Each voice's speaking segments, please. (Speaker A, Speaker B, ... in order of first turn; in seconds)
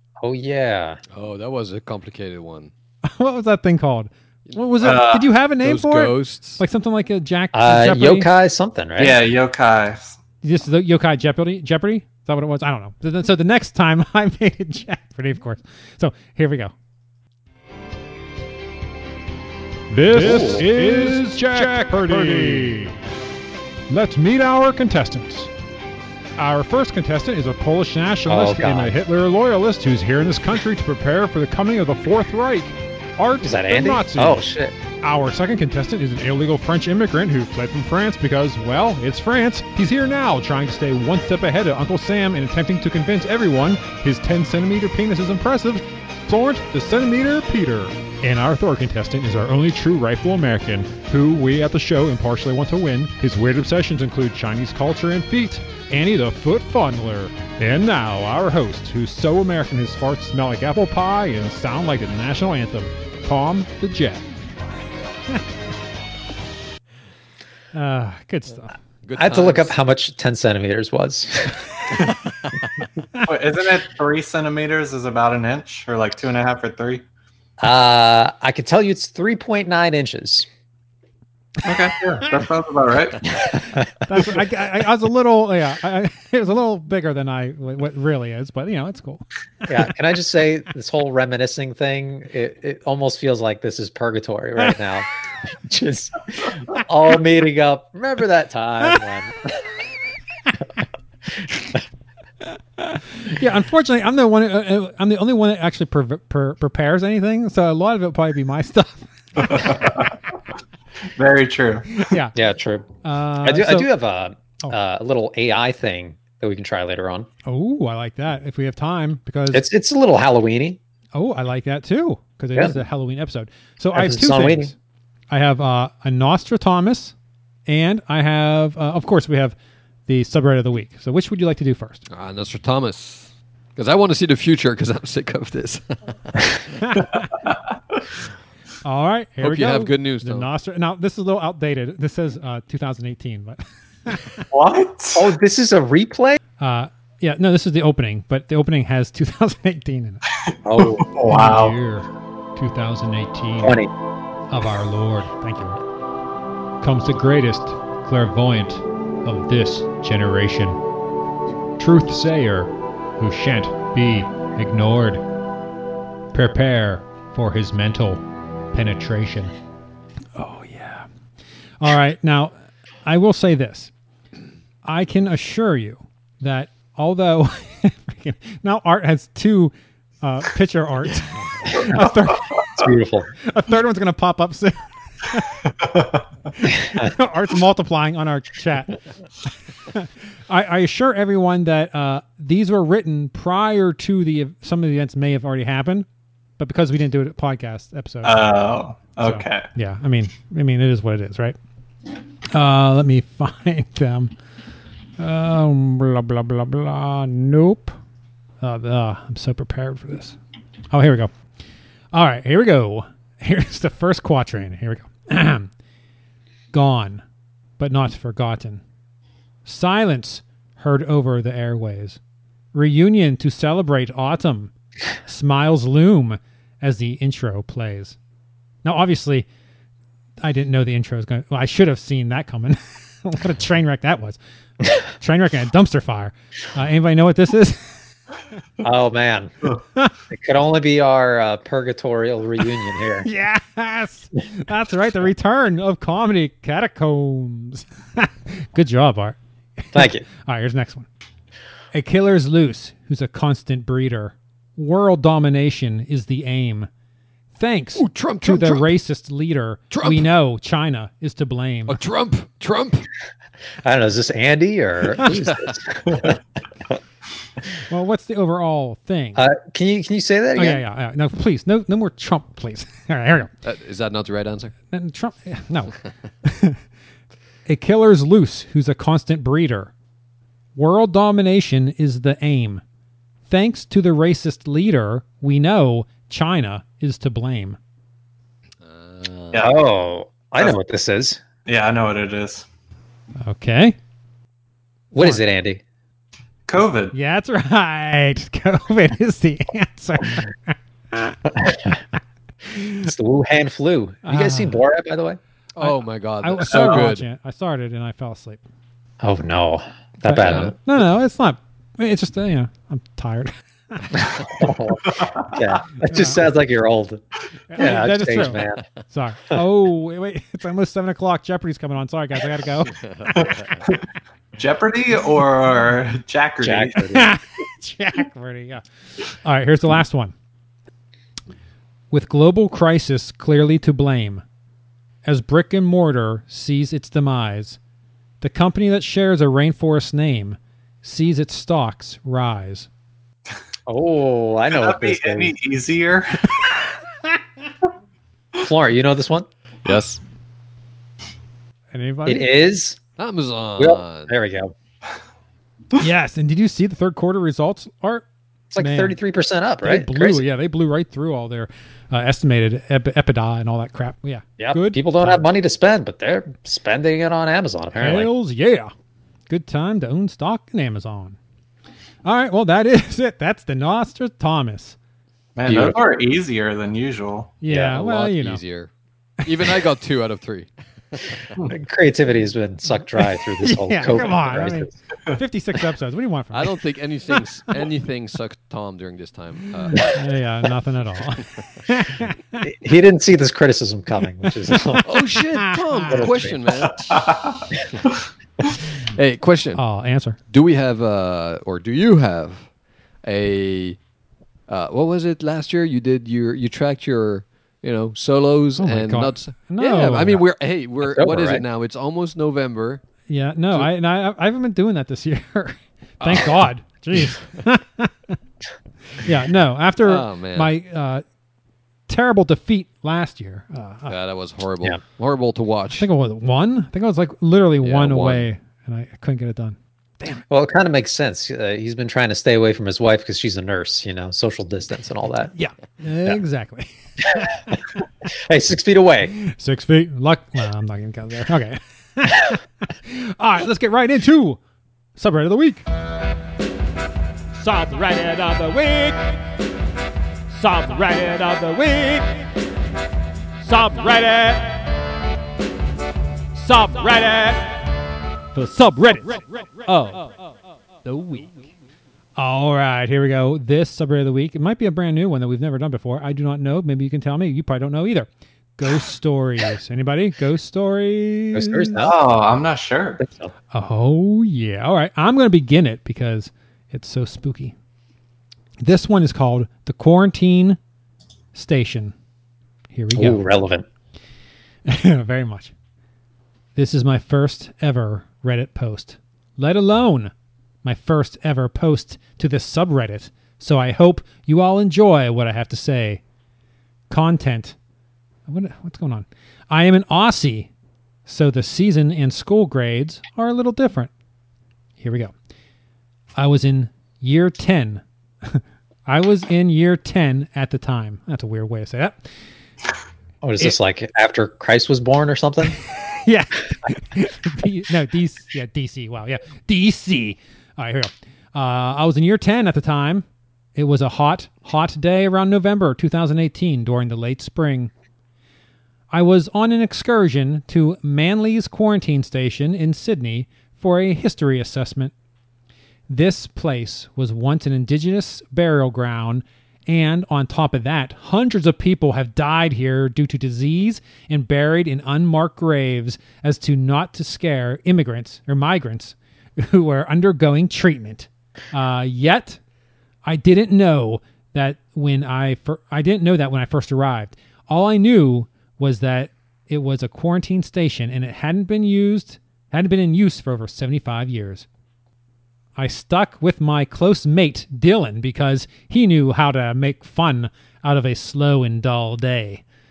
Speaker A: 0.2-1.0, 7.5-9.2, 20.1-20.7, 28.3-28.9, 33.4-34.8, 69.2-72.0, 77.6-80.5, 83.3-84.3, 89.7-99.6, 101.4-101.8, 112.3-112.9, 113.4-117.3, 119.5-120.8, 123.9-124.7, 145.1-146.4, 150.6-151.1, 153.6-153.9, 182.7-183.3, 238.8-239.7, 240.3-243.3, 249.9-250.2, 263.8-266.4, 269.4-270.8, 289.6-291.4, 295.1-295.8, 301.5-302.0, 303.0-305.4, 309.2-310.8, 314.1-317.2, 317.7-318.8, 326.6-327.3, 343.9-345.5, 348.6-349.5, 352.2-353.0, 353.8-354.7, 358.7-360.4, 364.6-368.3, 375.7-375.9, 377.7-377.9, 381.6-384.9, 392.6-395.1, 396.1-396.6, 411.0-411.6, 430.5-435.5, 438.2-439.3, 471.5-472.1, 473.2-473.5, 483.1-483.8, 513.4-515.8
Speaker B: 1.1-2.7, 4.5-4.9, 5.6-6.6, 69.0-69.7, 72.0-72.7, 132.1-136.7, 139.4-140.5, 258.0-258.9, 259.9-260.2, 261.9-263.1, 273.6-274.7, 288.8-289.7, 305.8-307.2, 310.4-310.7, 322.9-323.9, 349.8-350.2, 353.2-354.3, 377.7-378.9, 379.4-381.5, 386.5-390.2, 395.0-397.3, 399.1-399.8, 400.5-402.7, 403.2-404.0, 404.7-413.0, 416.2-416.6, 420.0-420.7, 424.1-426.1, 427.8-428.4
Speaker C: 3.0-8.3, 10.4-16.7, 20.5-22.8, 67.7-68.7, 84.0-89.2, 102.4-109.7, 112.0-112.3, 113.0-113.9, 117.5-119.6, 121.1-124.7, 125.3-127.1, 127.7-129.5, 130.1-132.0, 136.8-137.2, 138.8-144.4, 146.6-150.2, 151.3-153.8, 154.5-155.8, 156.8-160.8, 161.8-165.2, 166.3-169.5, 170.3-171.1, 171.8-172.5, 173.0-173.9, 174.8-182.6, 183.4-185.7, 186.6-189.0, 189.9-196.1, 196.6-198.5, 199.2-201.6, 202.5-204.3, 205.2-207.9, 208.6-210.4, 210.9-211.3, 212.1-215.7, 216.7-217.2, 217.8-218.8, 219.6-222.2, 222.7-224.7, 225.2-228.2, 228.8-229.4, 230.4-238.1, 243.2-251.1, 251.9-256.9, 257.5-262.0, 267.9-269.4, 270.6-273.5, 274.9-276.8, 277.6-279.9, 280.8-282.8, 283.5-287.8, 293.4-293.9, 297.1-301.4, 302.7-303.1, 304.2-304.8, 305.8-308.6, 310.2-314.2, 316.1-316.4, 317.7-323.0, 327.1-330.3, 332.1-334.4, 335.2-337.8, 338.4-342.9, 351.9-352.5, 356.0-358.2, 358.8-359.2, 359.8-365.5, 368.0-368.9, 369.5-371.4, 372.2-374.9, 377.6-378.6, 383.6-386.7, 389.9-392.6, 395.6-396.2, 399.7-400.4, 408.8-410.4, 413.3-418.4, 419.1-421.2, 422.1-424.1, 425.9-430.4, 435.5-437.8, 439.3-444.6, 445.2-445.8, 447.5-449.2, 450.5-452.4, 453.6-454.8, 456.5-457.8, 458.5-460.3, 461.0-461.6, 462.4-472.0, 473.7-477.7, 478.8-480.8, 481.5-482.1, 482.9-483.4, 484.9-485.7, 486.8-490.3, 490.8-496.2, 497.1-497.8, 498.5-500.7, 501.2-504.1, 505.0-505.3, 506.4-512.3, 515.8-523.2, 523.8-527.9, 529.1-535.1, 536.1-552.6, 553.2-564.6, 565.8-572.6
Speaker D: 4.8-5.3, 9.0-10.2, 73.2-77.0, 81.6-83.3, 109.4-110.2, 111.2-112.1, 144.5-145.3, 150.5-151.8, 185.8-186.2, 198.2-199.7, 291.6-292.6, 296.7-297.1, 306.7-307.0, 315.1-315.4, 323.3-324.0, 324.6-327.0, 344.8-346.5, 375.6-377.5, 397.1-397.6, 472.0-473.2
Speaker E: 19.9-22.9, 23.9-25.5, 26.4-34.4, 35.0-64.2